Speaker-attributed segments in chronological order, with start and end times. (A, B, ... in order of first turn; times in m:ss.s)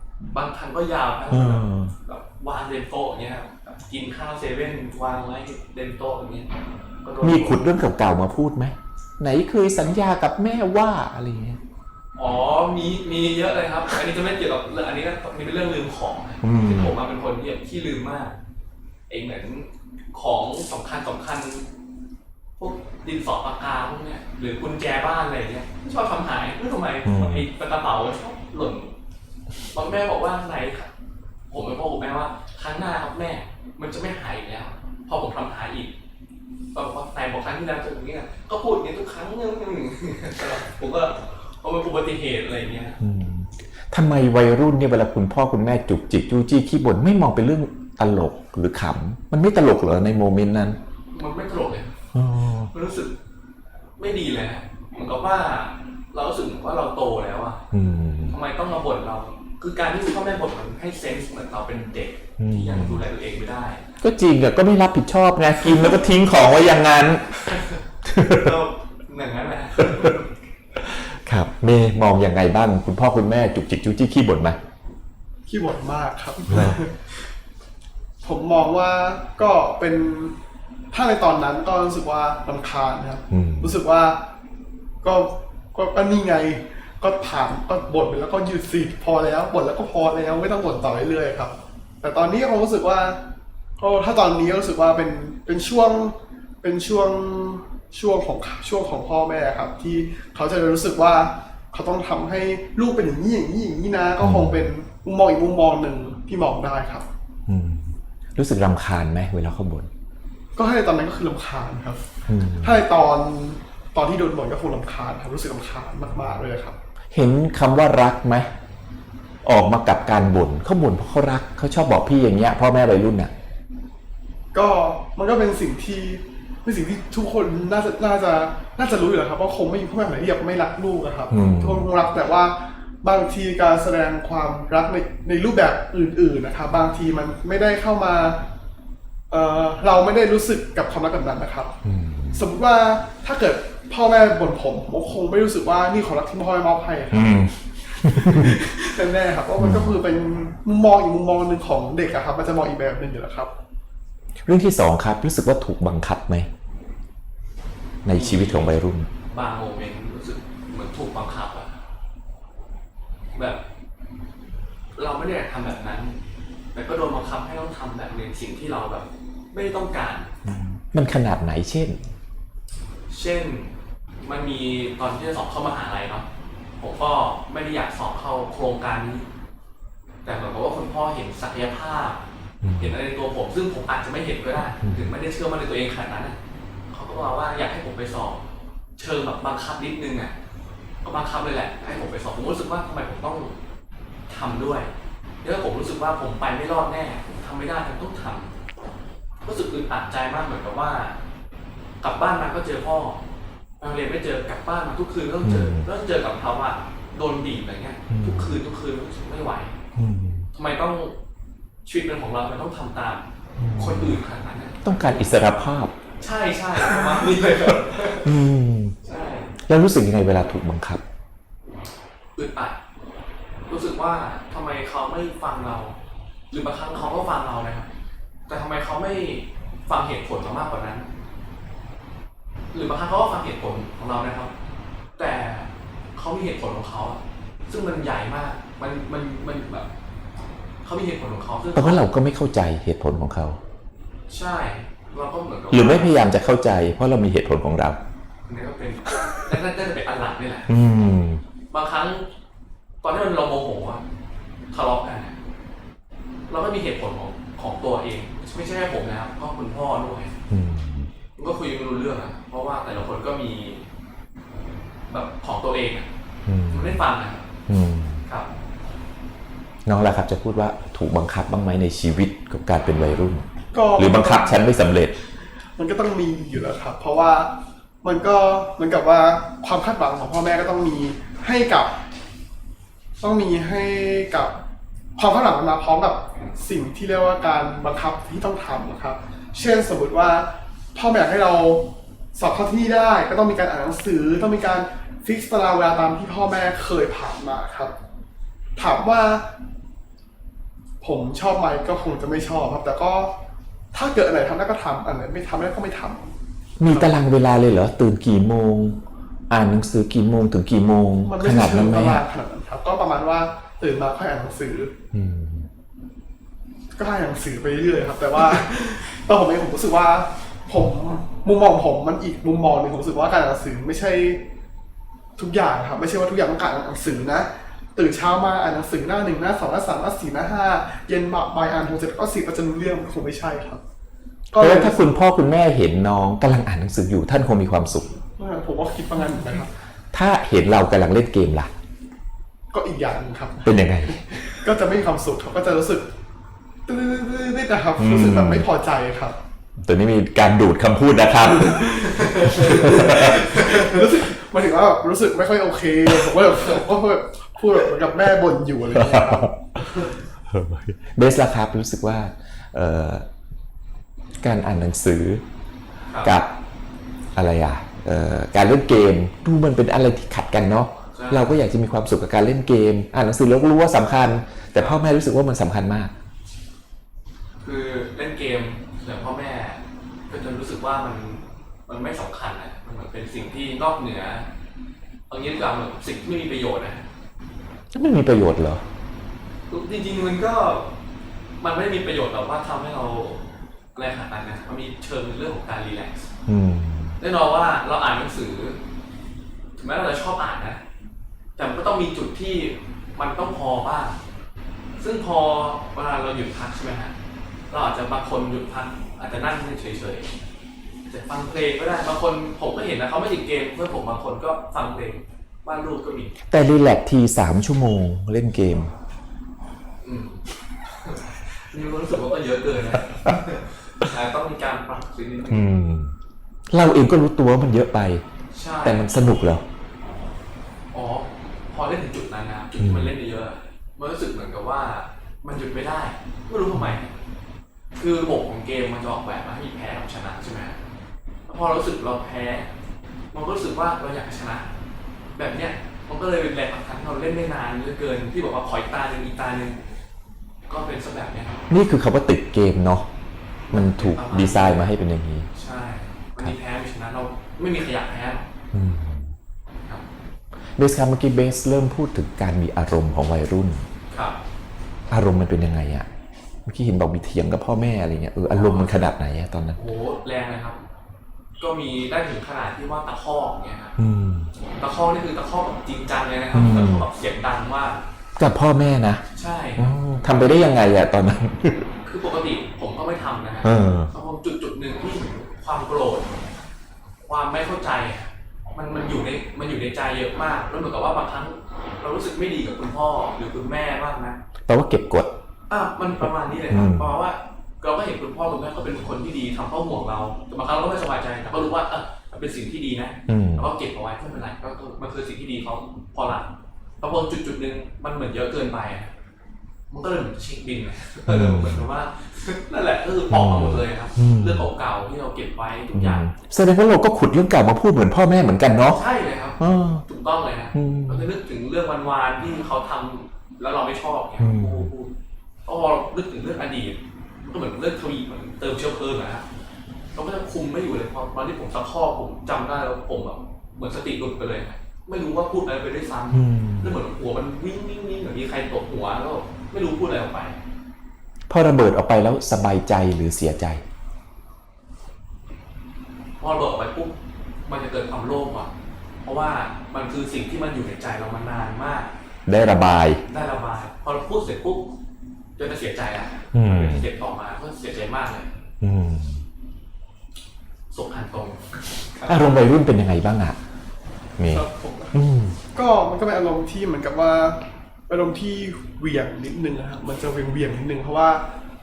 0:00.3-0:06.5 A
0:01.3-0:01.9 B
0:07.0-0:07.6 A
0:07.2-0:11.6 B
0:12.2-0:18.3 A
0:16.4-0:16.9 B
0:19.1-0:21.6 A
0:22.6-0:28.9 A
0:27.0-0:27.4 B
0:29.7-0:30.9 A
0:31.5-0:35.9 A
0:36.7-0:43.0 A
0:43.0-0:50.8 B
0:51.1-0:51.9 A
0:52.1-0:52.7 B
0:52.7-0:53.1 A
0:54.0-0:57.6 A
0:57.7-0:58.4 B
0:58.3-1:03.8 A
1:02.4-1:03.0 B
1:04.0-1:07.3 B
1:07.5-1:10.2 A
1:08.0-1:08.6 B
1:09.8-1:10.1 B
1:10.8-1:14.6 B
1:15.5-1:17.0 C
1:16.5-1:16.8 B
1:18.2-1:20.4 C
1:20.9-1:24.2 C
1:23.3-1:23.8 B
1:25.0-1:33.2 C
1:33.8-1:47.0 C
1:44.2-1:44.7 B
1:47.5-1:49.9 B
1:50.6-1:52.1 C
1:52.3-1:52.8 B
1:52.6-1:56.8 C
1:57.1-1:58.5 B
1:59.4-2:03.3 B
2:04.5-2:18.4 C
2:11.3-2:11.8 B
2:19.3-2:21.7 C
2:21.8-2:22.4 B
2:22.3-2:33.5 C
2:27.1-2:28.6 B
2:29.6-2:29.9 B
2:34.4-2:36.5 B
2:38.0-2:39.1 B
2:38.1-2:38.8 A
2:39.3-2:41.8 A
2:43.4-2:43.6 A
2:45.0-2:46.2 A
2:46.7-2:50.3 A
2:50.4-2:52.0 B
2:53.1-2:53.7 A
2:54.2-2:56.3 A
2:56.8-2:59.2 A
3:00.2-3:02.2 A
3:02.6-3:03.0 B
3:02.8-3:06.4 A
3:04.8-3:05.1 B
3:06.9-3:08.4 A
3:09.0-3:10.3 A
3:11.0-3:13.5 A
3:14.3-3:14.9 A
3:15.4-3:18.5 A
3:19.4-3:21.2 A
3:22.0-3:23.2 A
3:23.8-3:29.7 A
3:25.4-3:25.9 B
3:28.1-3:28.6 B
3:29.9-3:30.5 B
3:30.5-3:31.2 A
3:31.8-3:33.2 A
3:33.6-3:34.2 B
3:33.8-3:34.8 A
3:34.8-3:35.9 B
3:36.2-3:38.4 A
3:38.2-3:39.0 B
3:39.0-3:39.5 A
3:39.6-3:41.0 B
3:42.4-3:42.8 A
3:43.7-3:45.9 A
3:46.5-3:47.8 A
3:48.5-3:51.0 A
3:52.7-3:54.5 A
3:55.2-3:59.9 A
4:00.8-4:02.0 A
4:01.7-4:03.6 B
4:04.3-4:06.1 A
4:05.7-4:08.0 B
4:08.5-4:10.7 A
4:10.7-4:11.4 B
4:11.7-4:12.2 A
4:13.0-4:14.0 A
4:14.7-4:15.3 A
4:16.5-4:20.3 A
4:20.5-4:21.1 B
4:21.4-4:23.8 A
4:25.1-4:26.1 A
4:26.4-4:27.0 B
4:26.7-4:27.4 A
4:27.7-4:28.2 B
4:29.8-4:35.1 B
4:33.7-4:34.6 C
4:35.6-4:42.0 C
4:43.2-4:44.6 C
4:45.2-4:57.9 C
4:58.8-4:59.4 C
5:01.0-5:03.3 C
5:03.9-5:06.3 C
5:06.8-5:12.2 B
5:06.9-5:07.1 C
5:11.2-5:14.9 C
5:15.1-5:15.7 B
5:17.0-5:24.4 C
5:25.4-5:33.8 C
5:34.5-5:35.1 C
5:34.5-5:38.2 B
5:38.4-5:39.7 C
5:40.1-5:41.7 B
5:42.7-5:46.1 C
5:43.6-5:44.3 B
5:46.9-5:49.4 C
5:48.0-5:48.6 B
5:49.8-5:53.6 B
5:52.1-6:00.1 C
5:52.3-5:53.9 A
5:58.9-6:03.3 B
6:04.4-6:05.4 B
6:06.1-6:06.4 A
6:06.2-6:06.5 B
6:07.3-6:16.1 B
6:11.1-6:11.5 A
6:17.6-6:24.5 A
6:25.3-6:27.0 A
6:27.9-6:28.8 B
6:29.7-6:30.9 A
6:31.6-6:33.4 A
6:33.9-6:36.3 A
6:36.5-6:37.2 B
6:37.2-6:38.8 A
6:39.8-6:40.8 A
6:41.6-6:44.2 A
6:45.0-6:47.1 A
6:47.7-6:50.3 A
6:51.1-6:56.3 A
6:56.5-6:58.9 B
7:00.0-7:05.7 A
7:05.5-7:06.1 B
7:06.7-7:08.2 B
7:08.5-7:09.0 A
7:08.8-7:09.6 B
7:10.9-7:17.1 A
7:12.8-7:13.1 B
7:18.0-7:20.8 A
7:21.5-7:22.7 A
7:23.3-7:24.7 A
7:25.4-7:29.8 A
7:30.7-7:31.6 A
7:31.7-7:33.1 B
7:33.7-7:34.9 A
7:33.7-7:35.5 B
7:35.5-7:38.5 A
7:38.7-7:39.3 B
7:40.8-7:43.9 B
7:44.1-7:44.4 A
7:45.1-7:46.1 B
7:46.6-7:49.8 B
7:48.5-7:49.0 A
7:49.8-7:50.8 A
7:51.6-7:54.0 A
7:54.0-7:54.5 B
7:54.8-7:58.0 A
7:56.5-7:57.0 B
7:58.4-7:59.2 B
7:59.3-7:59.9 A
7:59.8-8:01.9 B
8:02.0-8:06.3 A
8:03.6-8:04.1 B
8:07.2-8:14.4 A
8:14.7-8:15.3 B
8:15.7-8:26.5 A
8:16.7-8:17.1 B
8:23.3-8:23.7 B
8:27.0-8:29.1 A
8:29.9-8:36.3 A
8:31.3-8:31.9 B
8:33.3-8:34.7 B
8:35.9-8:39.0 B
8:38.9-8:45.1 A
8:39.6-8:40.0 B
8:40.7-8:41.3 B
8:44.4-8:44.9 B
8:45.6-8:49.4 A
8:50.1-9:00.6 A
8:56.3-8:56.9 B
9:01.5-9:03.8 B
9:06.4-9:07.1 A
9:07.7-9:08.7 A
9:09.2-9:12.1 A
9:12.5-9:13.2 B
9:13.3-9:14.9 A
9:15.6-9:18.5 A
9:16.5-9:17.0 B
9:18.8-9:19.4 B
9:20.9-9:22.5 A
9:22.2-9:23.6 B
9:24.4-9:25.6 B
9:24.4-9:25.2 C
9:25.7-9:31.4 C